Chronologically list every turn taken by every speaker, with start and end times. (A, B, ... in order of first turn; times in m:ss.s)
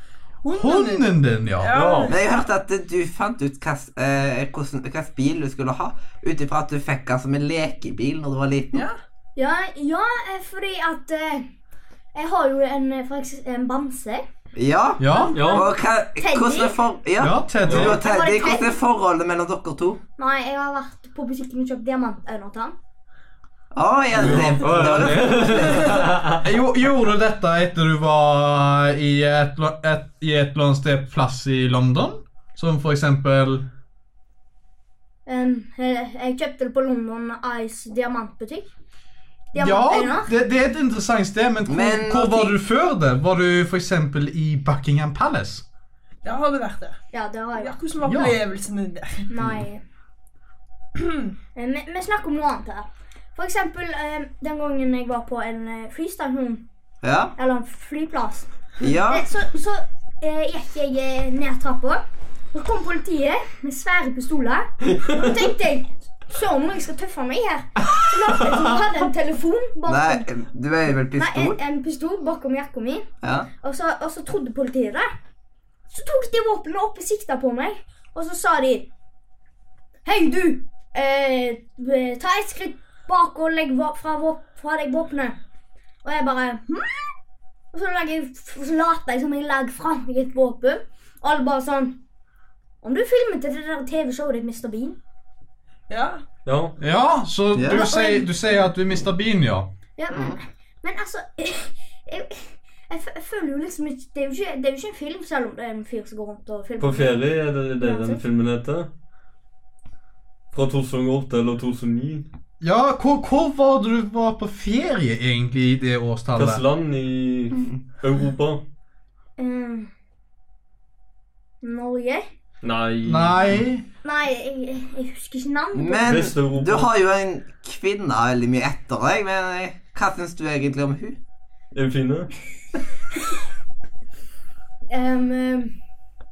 0:00.4-0:02.3 A
0:00.5-0:01.7 B
0:01.7-0:02.2 C
0:02.1-0:08.8 D
0:09.4-0:11.5 E
0:12.1-0:14.2 E
0:14.5-0:20.0 D
0:15.0-0:15.5 B
0:15.1-0:16.8 E
0:15.3-0:15.6 C
0:17.2-0:18.0 B
0:17.6-0:17.9 C
0:17.9-0:18.8 E
0:20.2-0:22.8 E
0:23.7-0:26.0 D
0:24.2-0:26.4 C
0:26.4-0:33.6 B
0:35.2-0:38.7 E
0:39.5-0:40.3 E
0:39.6-0:45.6 B
0:41.7-0:42.6 D
0:46.2-0:47.0 A
0:47.1-0:47.8 E
0:47.6-0:49.3 A
0:48.0-0:48.4 B
0:49.3-0:49.8 E
0:49.4-0:49.6 D
0:51.0-0:51.3 A
0:51.5-0:56.6 E
0:57.0-0:57.3 D
0:57.4-0:58.5 E
0:58.8-0:59.2 D
0:59.0-1:02.0 E
1:02.5-1:10.2 E
1:09.9-1:11.6 D
1:11.2-1:13.1 E
1:13.2-1:13.5 D
1:13.6-1:15.1 E
1:15.9-1:18.9 E
1:20.0-1:25.4 E
1:26.0-1:27.1 E
1:27.7-1:32.0 E
1:32.8-1:35.0 E
1:35.9-1:36.2 A
1:36.4-1:36.8 C
1:36.8-1:39.7 B
1:37.5-1:37.9 D
1:37.7-1:38.3 E
1:40.0-1:48.2 E
1:40.1-1:40.4 D
1:46.8-1:48.9 C
1:50.5-1:52.3 C
1:52.6-1:56.6 B
1:56.3-1:58.6 C
1:59.4-1:59.9 E
2:01.6-2:02.2 E
2:02.6-2:03.6 C
2:03.0-2:03.8 B
2:04.0-2:06.3 E
2:05.7-2:11.2 D
2:06.0-2:06.9 C
2:11.7-2:12.3 C
2:14.9-2:15.7 E